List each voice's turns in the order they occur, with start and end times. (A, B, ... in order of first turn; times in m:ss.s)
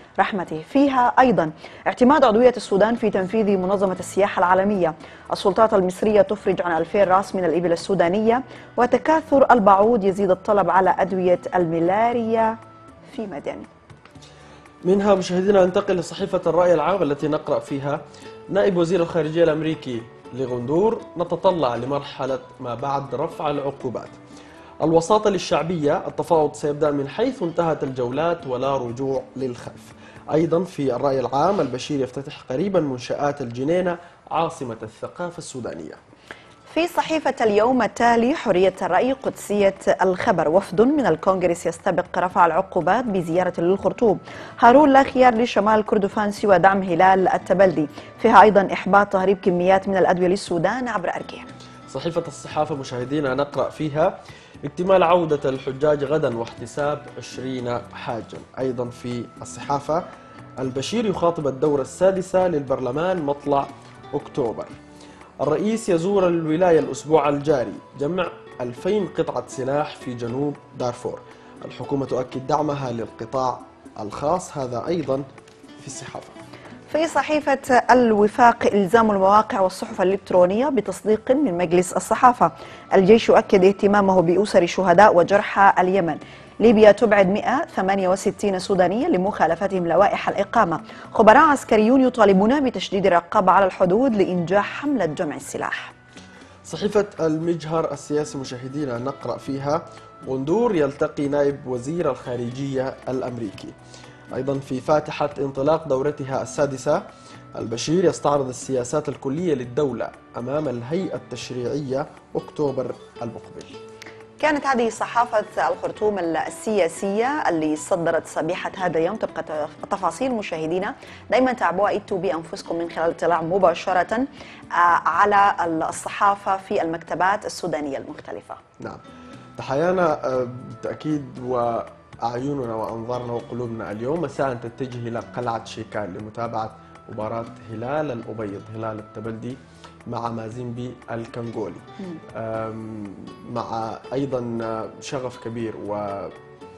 0:00.2-0:12.6 A
0:13.1-0:13.7 A
0:14.8-0:24.2 B
0:24.8-0:36.0 B
0:36.7-0:51.5 A
0:51.9-1:00.0 B
1:00.6-1:04.7 B
1:05.4-1:15.2 B
1:15.8-1:16.4 B
1:16.9-1:35.9 A
1:36.6-1:43.7 B
1:44.3-1:47.0 B
1:47.5-1:53.8 B
1:54.4-2:08.6 A
2:09.6-2:26.3 B